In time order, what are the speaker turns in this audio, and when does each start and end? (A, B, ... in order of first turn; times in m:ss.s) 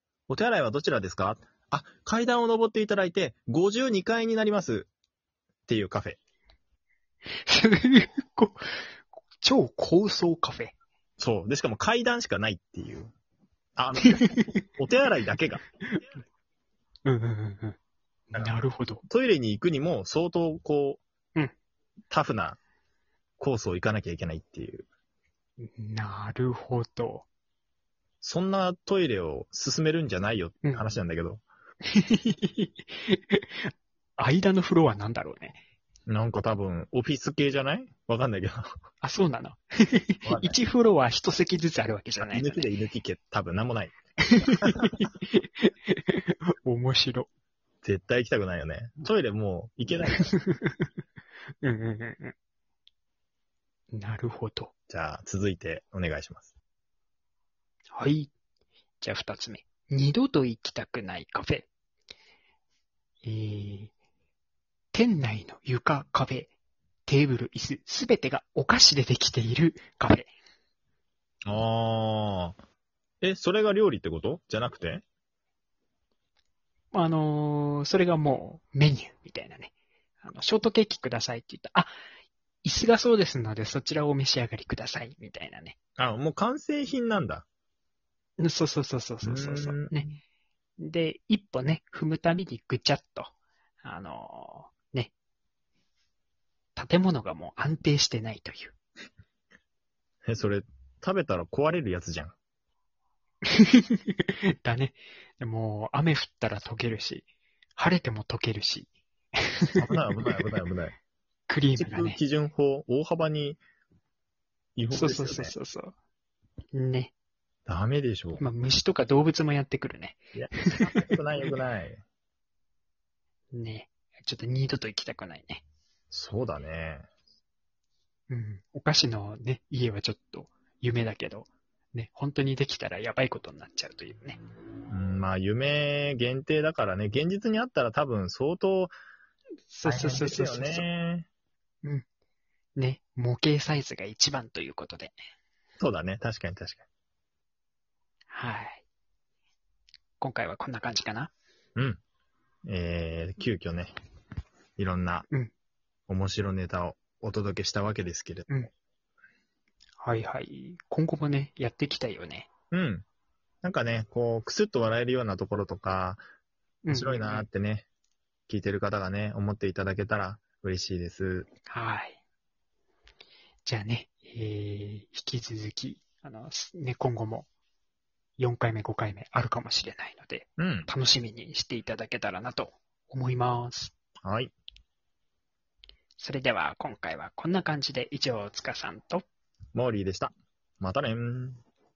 0:00.3-0:04.9 A
0:05.7-0:06.2 A
0:07.4-0:08.9 B
0:09.4-0:10.7 B
0:11.2-0:13.1 A
0:13.8-0:15.6 A
0:14.0-0:14.5 B
0:17.0-0:17.8 B
0:18.3-0:19.0 B
0:19.1-0:21.0 A
0:22.1-0:22.6 A
0:23.4-0:24.8 A
0:25.6-0:27.2 B
0:28.2-0:31.4 A
0:31.9-0:35.6 B
0:36.1-0:38.7 A
0:39.0-0:42.7 B
0:40.2-0:40.6 A
0:42.2-0:44.0 A
0:44.2-0:47.3 B
0:44.6-0:44.9 A
0:47.8-0:50.3 A
0:50.1-0:50.9 B
0:51.6-0:52.3 B
0:53.9-0:54.7 B
0:54.9-0:56.5 A
0:57.9-0:58.3 B
0:59.0-1:01.7 B
1:03.2-1:03.9 B
1:04.9-1:06.5 B
1:07.0-1:10.3 B
1:11.5-1:12.6 A
1:13.2-1:15.0 A
1:16.9-1:21.9 B
1:22.6-1:25.8 B
1:26.0-1:27.4 A
1:28.4-1:30.2 B
1:29.2-1:30.0 A
1:30.8-1:35.1 B
1:36.8-1:38.7 B
1:40.2-1:42.3 A
1:43.5-1:48.9 B
1:49.4-1:50.4 B
1:49.8-1:51.0 A
1:51.5-1:52.2 B
1:51.8-1:53.6 A
1:54.8-1:55.5 A
1:54.9-1:55.9 B
1:56.7-1:57.1 B
1:57.7-1:58.4 A
1:58.4-2:00.2 B
2:00.3-2:02.0 A
2:00.8-2:01.5 B
2:03.5-2:05.6 B
2:06.1-2:07.0 A
2:08.3-2:14.4 B
2:14.9-2:18.9 A
2:19.7-2:20.9 B
2:19.8-2:21.3 A
2:22.8-2:25.1 B
2:25.8-2:26.8 A
2:28.3-2:28.8 B
2:30.2-2:31.3 B
2:31.8-2:32.0 A
2:32.7-2:33.9 A
2:34.8-2:35.3 A
2:36.1-2:38.5 A
2:40.0-2:42.5 B
2:42.7-2:43.0 A
2:43.6-2:46.2 A
2:46.8-2:47.5 B
2:46.9-2:47.9 A
2:48.5-2:51.5 A
2:51.7-2:52.2 B
2:53.6-2:57.5 B
2:58.4-3:03.9 B
3:00.6-3:00.9 A
3:04.2-3:04.5 A
3:06.2-3:09.2 B
3:09.7-3:11.6 A